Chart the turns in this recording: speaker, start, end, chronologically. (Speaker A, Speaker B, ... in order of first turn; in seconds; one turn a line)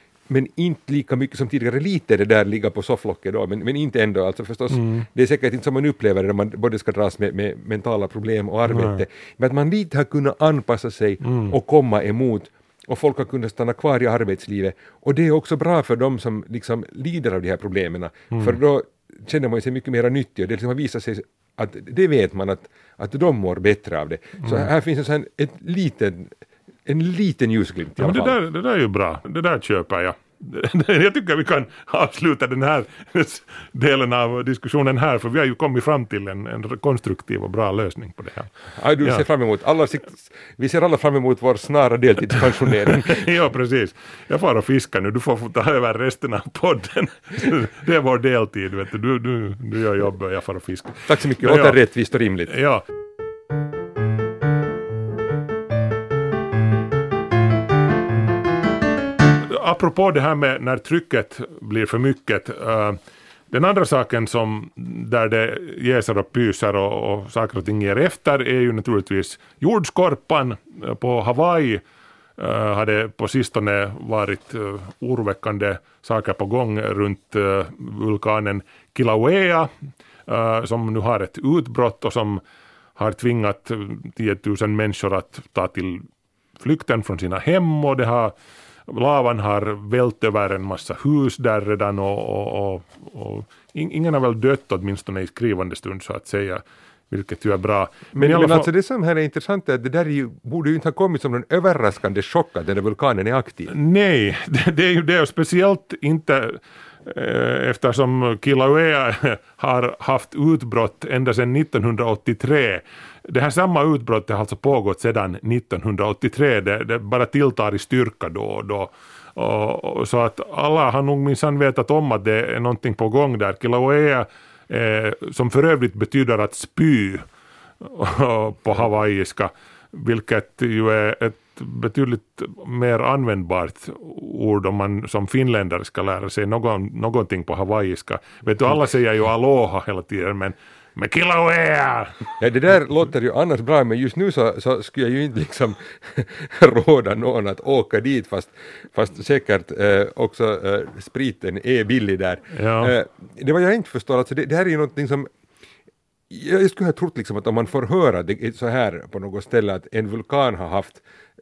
Speaker A: 0.3-26.3
Speaker B: 4.7-5.1
Speaker B: 8.7-9.0
Speaker B: 11.2-11.5
Speaker B: 24.4-24.7
Speaker A: 26.9-28.4
Speaker B: 28.0-39.2
Speaker A: 38.8-43.3
Speaker B: 42.9-51.8
Speaker A: 51.1-52.5
Speaker B: 52.5-52.8
Speaker B: 59.5-63.0
Speaker B: 63.5-71.8
Speaker B: 72.4-79.7
Speaker B: 80.2-82.4
Speaker B: 83.0-86.1
Speaker B: 86.6-88.3
Speaker B: 88.9-98.7
Speaker A: 98.1-103.7
Speaker B: 103.7-127.2
Speaker B: 127.8-142.2
Speaker A: 142.4-155.3
Speaker B: 152.5-152.9
Speaker A: 156.3-161.0